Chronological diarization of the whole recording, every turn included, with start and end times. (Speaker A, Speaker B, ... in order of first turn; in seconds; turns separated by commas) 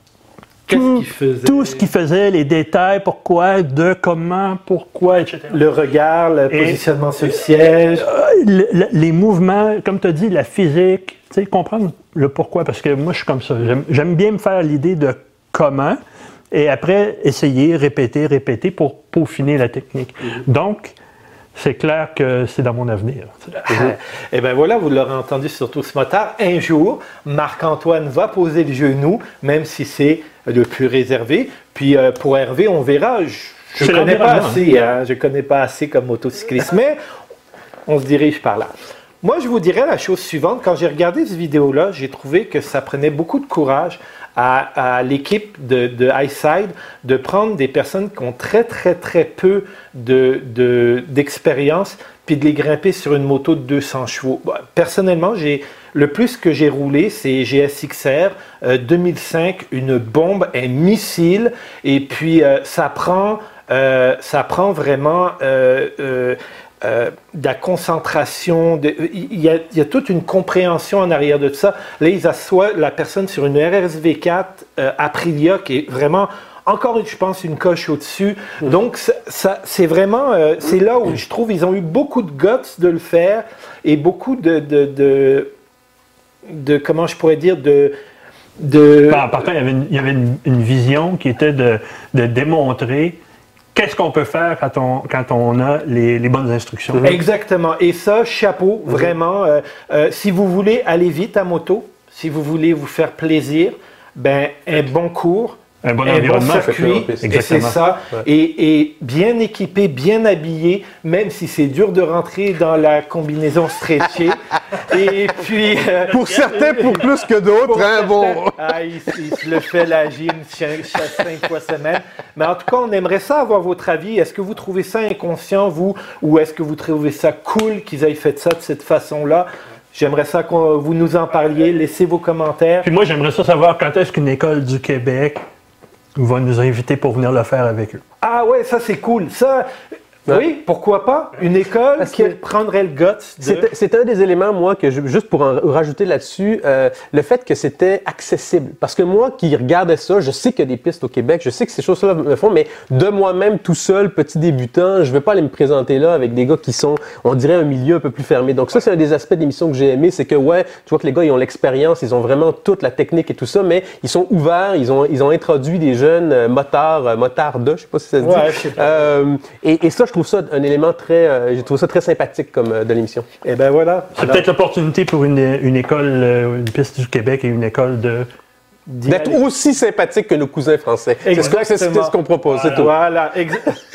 Speaker A: 0.7-1.9, Speaker B: 0.7-5.6, Speaker A: 5.5-8.1, Speaker B: 6.5-6.8, Speaker B: 8.0-16.0, Speaker B: 16.5-20.9, Speaker B: 21.6-23.9, Speaker C: 23.7-24.0, Speaker A: 23.7-37.0, Speaker B: 33.8-34.6, Speaker A: 37.9-38.7, Speaker A: 39.2-85.5, Speaker A: 86.5-88.0, Speaker A: 88.6-89.3, Speaker B: 89.1-93.2, Speaker B: 93.7-97.2, Speaker C: 96.9-97.2, Speaker A: 97.0-132.9, Speaker B: 105.8-107.8, Speaker C: 106.5-107.3, Speaker C: 116.1-118.6, Speaker B: 116.2-117.0, Speaker B: 132.8-135.4, Speaker B: 136.2-138.0, Speaker A: 138.2-139.6, Speaker A: 140.3-143.7, Speaker C: 142.0-142.4, Speaker C: 143.4-173.3, Speaker A: 168.2-169.2, Speaker A: 173.4-174.5, Speaker B: 174.2-178.3, Speaker A: 178.9-179.4, Speaker C: 179.1-182.9, Speaker A: 181.2-183.7, Speaker B: 182.5-182.9